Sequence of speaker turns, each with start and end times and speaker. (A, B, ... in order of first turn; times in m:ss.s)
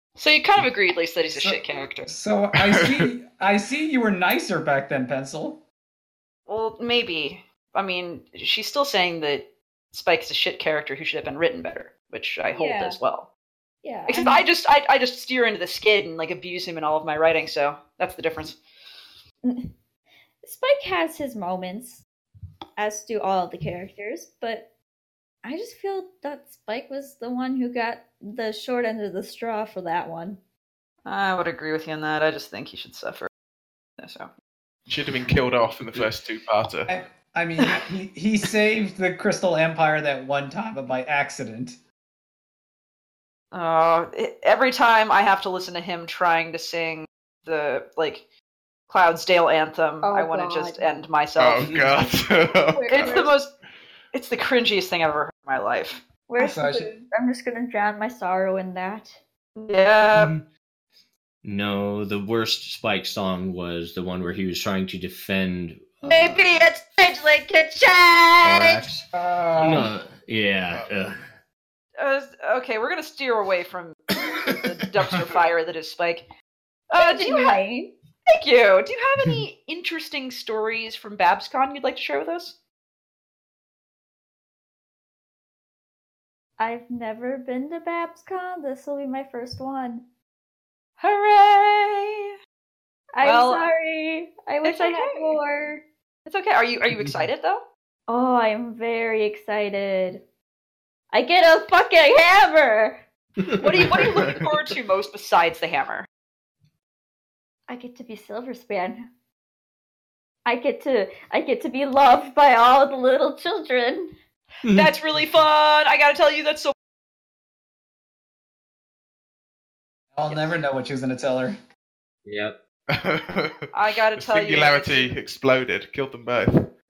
0:00.2-0:02.1 A
0:01.3-0:05.6 B
0:02.6-0:03.0 C
0:06.5-0:13.3 A
0:12.5-0:13.0 D
0:13.8-0:14.4 D
0:14.1-0:18.6 A
0:19.4-0:19.7 D
0:20.4-0:22.0 D
0:22.8-0:24.6 D
0:25.4-0:30.4 D
0:31.0-0:33.3 A
0:34.0-0:34.3 A
0:34.9-0:36.9 C
0:36.9-0:41.8 B
0:43.5-0:48.2 A
0:48.9-0:51.8 A
0:50.0-0:50.8 D
0:51.4-0:53.3 C
0:51.6-0:52.0 E
0:51.9-0:53.4 D
0:52.9-0:53.5 A
0:54.1-0:56.0 A
0:56.3-0:59.2 D
0:56.4-0:56.9 B
0:59.6-1:00.3 A
1:00.1-1:00.4 E
1:01.4-1:06.4 E
1:06.0-1:08.9 A
1:08.4-1:09.0 E
1:09.1-1:09.9 B
1:09.6-1:11.2 E
1:12.0-1:16.2 A
1:16.9-1:17.6 A
1:17.0-1:17.9 D
1:18.3-1:22.5 A
1:26.6-1:30.0 D
1:31.0-1:32.3 A
1:33.2-1:35.8 D
1:33.2-1:33.6 A
1:34.6-1:35.4 A
1:36.3-1:37.6 A
1:36.9-1:37.2 E
1:38.1-1:40.2 D
1:41.1-1:43.0 D
1:43.4-1:44.4 E
1:43.6-1:46.1 A
1:44.2-1:44.4 C
1:47.7-1:49.1 D
1:50.4-1:54.1 D
1:54.6-1:54.9 E
1:54.7-1:56.7 A
2:00.1-2:01.6 B
2:02.2-2:02.5 E
2:02.9-2:03.6 C
2:03.7-2:05.2 A
2:04.2-2:06.6 C